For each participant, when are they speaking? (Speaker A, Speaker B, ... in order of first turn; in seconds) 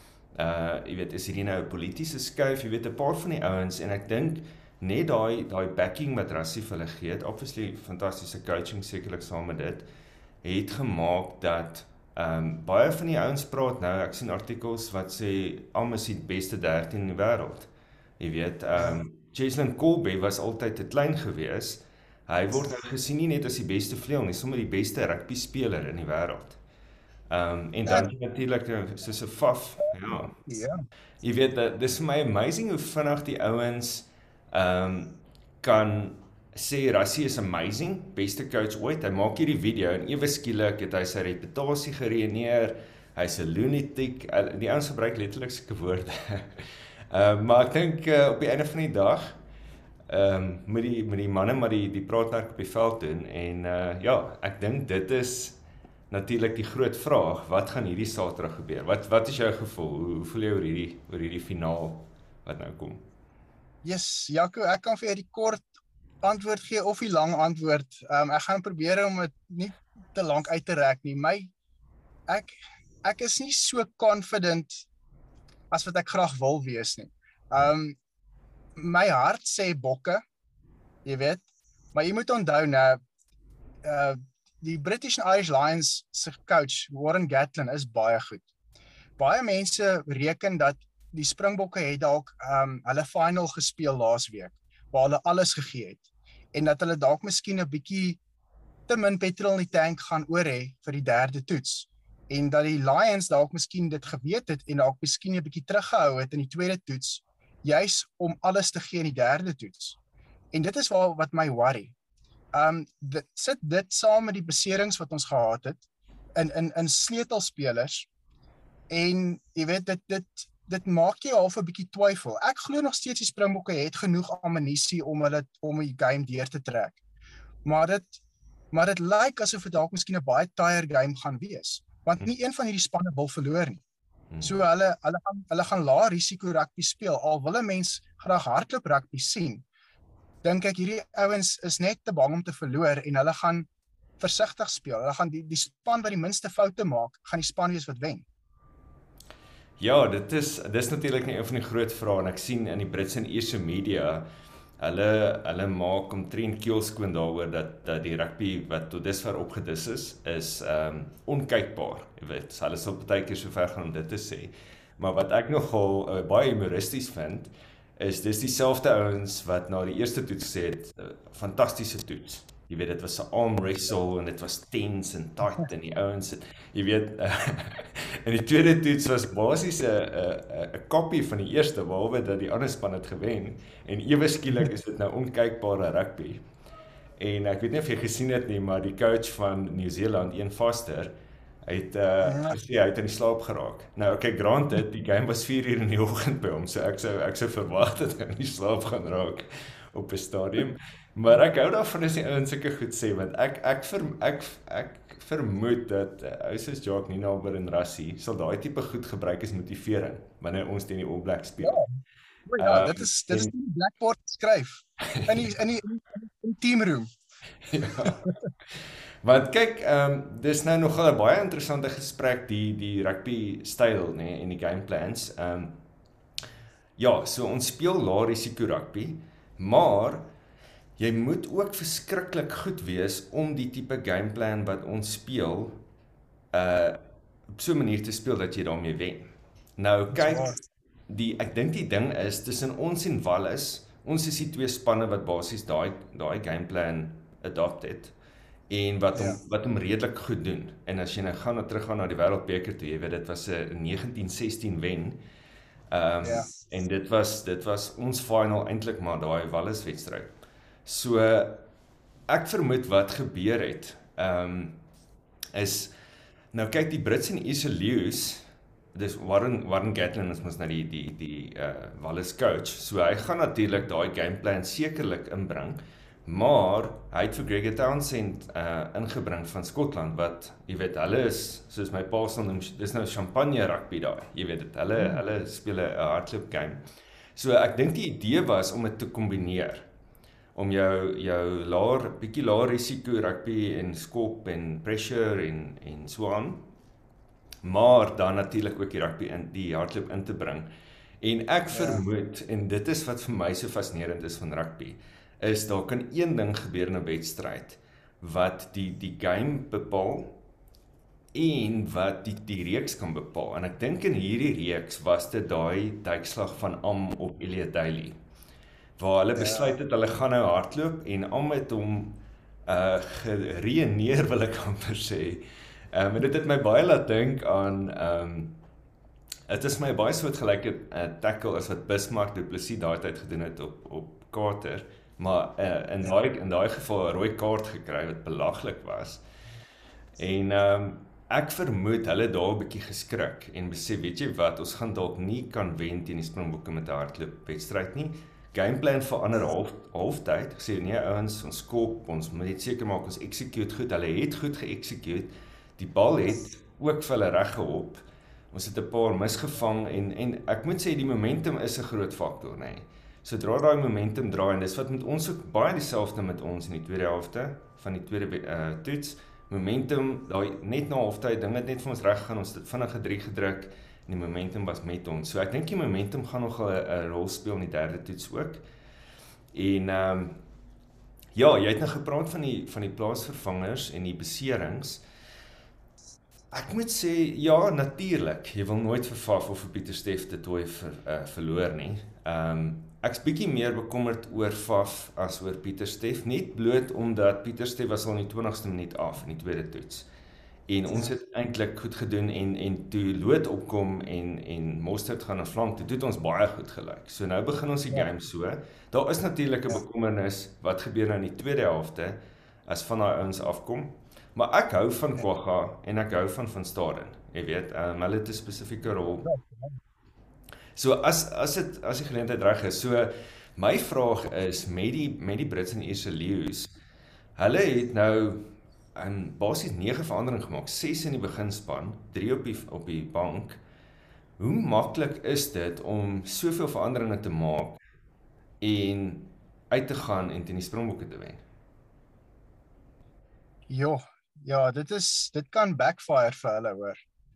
Speaker A: 0.3-9.9, 10.4-17.7, 18.2-26.6, 27.3-30.3, 31.2-49.4, 50.1-55.6, 56.1-63.0, 134.3-134.6, 149.8-154.2, 154.8-186.4, 187.2-191.1, 191.7-211.8, 212.6-213.5, 217.7-218.3, 219.2-225.8, 227.0-230.3, 231.0-235.8, 236.5-237.0, 237.6-248.2, 248.7-255.2, 255.9-260.3, 260.9-261.6, 262.3-264.8, 265.5-265.9, 266.5-286.8, 287.4-289.9, 290.6-296.7, 297.6-300.7, 301.2-310.4, 311.3-318.2, 319.0-328.6, 329.5-339.2, 340.2-378.6, 379.5-380.4, 381.4-385.0, 386.5-400.1, 400.7-419.3, 420.8-426.7, 427.4-433.6, 434.4-437.8, 438.6-441.4
Speaker B: 30.0-30.8, 63.8-65.7, 66.2-71.5, 72.3-74.8, 75.7-78.0, 78.8-80.2, 81.0-83.0, 83.8-88.5, 89.2-98.2, 98.9-110.0, 110.5-112.0, 112.5-115.8, 116.3-118.1, 118.9-127.0, 127.6-128.2, 128.7-133.8, 134.4-139.7, 140.4-143.7, 144.2-148.3, 192.2-192.6, 211.6-211.9, 212.5-217.1, 218.0-218.3, 240.1-240.6, 256.2-256.5, 301.7-302.0, 319.4-319.8, 419.2-419.8, 443.7-447.0